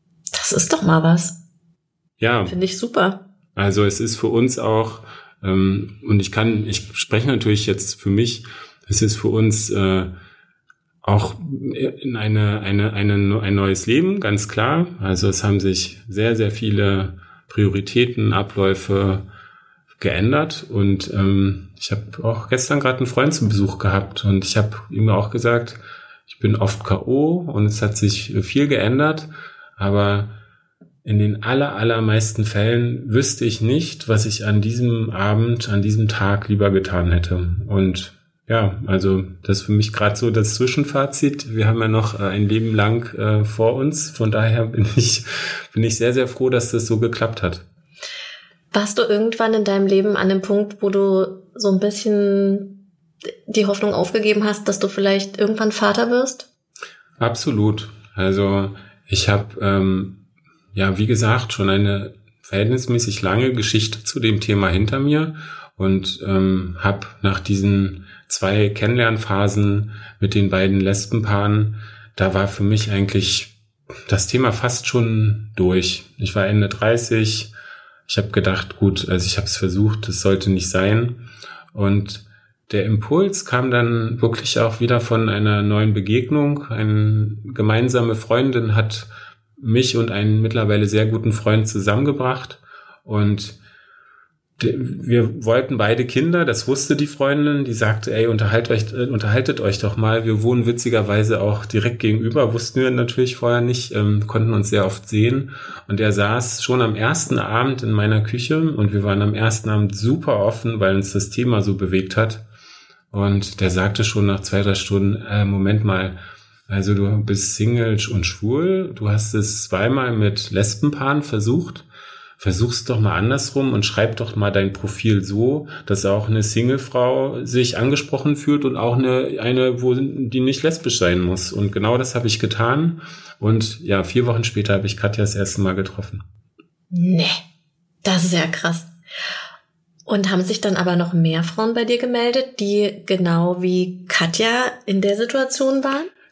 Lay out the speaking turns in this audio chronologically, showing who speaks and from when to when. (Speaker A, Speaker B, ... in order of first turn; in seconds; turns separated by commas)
Speaker A: 0.3-1.4, Speaker B: 2.2-2.5, Speaker A: 2.5-3.2, Speaker B: 3.5-10.1, Speaker B: 11.0-19.2, Speaker B: 20.0-30.3, Speaker B: 31.0-47.6, Speaker A: 48.7-52.8, Speaker A: 53.5-56.5, Speaker B: 57.2-60.2, Speaker B: 60.7-73.5, Speaker B: 74.1-77.5, Speaker B: 78.1-93.6, Speaker B: 94.6-112.4, Speaker B: 113.1-116.2, Speaker B: 116.7-121.8, Speaker B: 122.4-136.2, Speaker A: 136.9-137.4, Speaker A: 138.0-138.9, Speaker A: 140.1-146.1